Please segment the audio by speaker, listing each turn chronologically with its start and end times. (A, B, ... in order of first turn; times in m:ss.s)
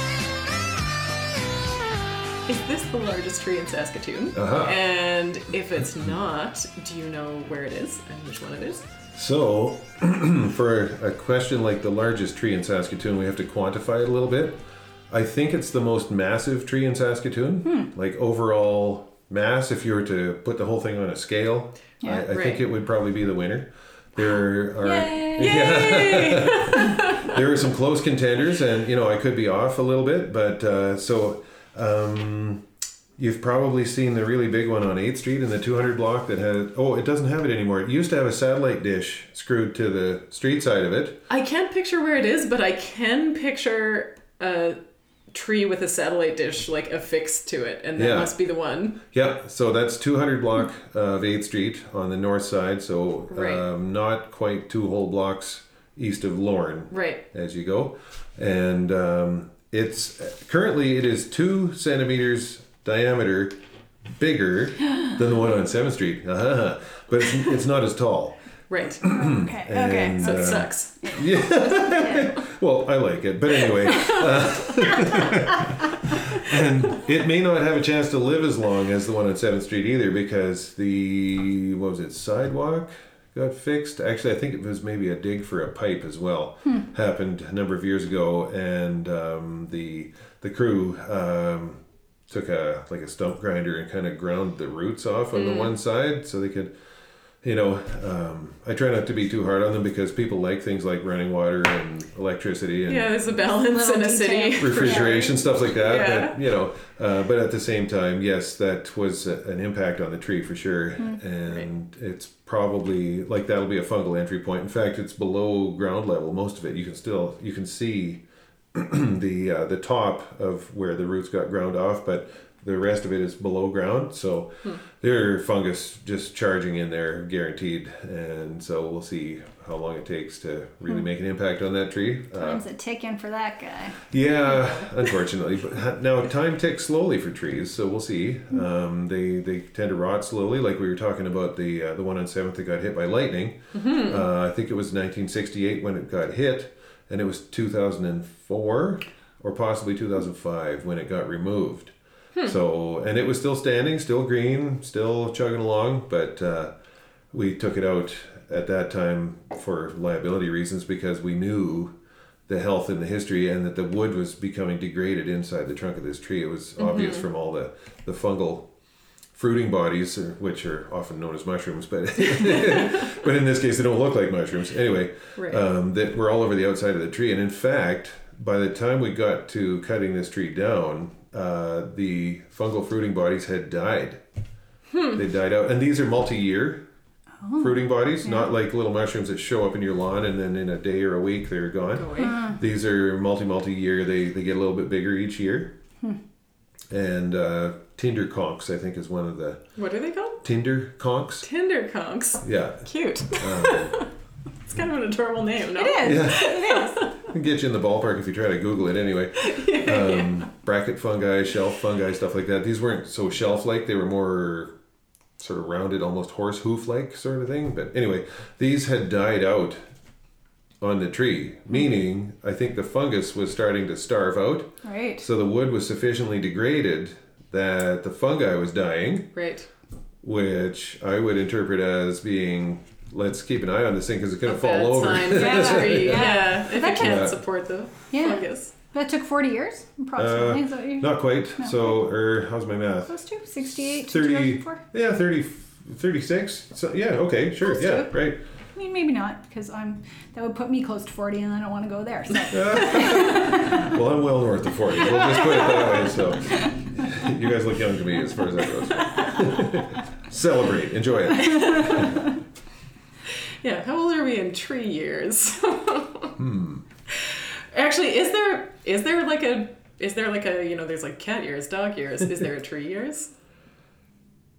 0:02.5-0:08.9 A
0:04.4-0:04.8 B
0:09.1-0:32.6 B
0:17.6-0:17.9 C
0:22.3-0:22.6 A
0:24.8-0:25.8 C
0:25.4-0:27.3 A
0:33.2-0:41.2 B
0:41.3-0:44.8 A
0:45.3-0:49.0 A
0:48.0-0:48.3 B
0:49.1-1:03.6 B
0:53.3-0:53.7 A
0:56.9-0:57.2 A
1:04.2-1:08.4 B
1:08.7-1:09.1 A
1:09.0-1:12.3 C
1:09.0-1:36.7 B
1:10.2-1:11.2 A
1:35.3-1:35.7 A
1:37.4-1:43.2 B
1:42.9-1:46.4 A
1:43.4-1:45.3 C
1:44.6-1:58.2 B
1:58.7-2:12.7 B
2:12.4-2:14.0 C
2:14.1-2:36.7 B
2:14.5-2:14.8 A
2:23.8-2:24.3 A
2:37.3-2:41.9 B
2:42.5-2:48.7 B
2:46.8-2:47.3 A
2:49.3-3:04.2 B
2:55.4-2:55.6 A
3:04.9-3:05.2 A
3:05.1-3:06.8 B
3:07.4-3:08.5 C
3:07.6-3:15.8 B
3:12.0-3:12.4 A
3:12.2-3:12.6 C
3:16.9-3:19.6 B
3:19.8-3:20.4 A
3:20.4-3:21.5 B
3:21.4-3:24.1 A
3:22.4-3:24.0 B
3:24.7-3:27.2 A
3:25.7-3:27.0 C
3:26.0-3:26.6 B
3:27.1-3:34.7 B
3:29.4-3:30.5 A
3:35.4-3:39.8 B
3:40.8-3:49.3 B
3:44.8-3:45.2 C
3:49.3-3:49.7 A
3:50.2-3:57.4 B
3:54.4-3:58.7 A
3:55.3-3:57.3 C
3:58.1-4:02.0 C
4:00.2-4:08.4 B
4:03.1-4:04.8 C
4:07.6-4:08.1 C
4:08.8-4:13.9 C
4:12.5-4:22.3 B
4:21.4-4:22.0 A
4:23.6-4:26.4 A
4:26.4-4:26.8 B
4:27.2-4:33.3 A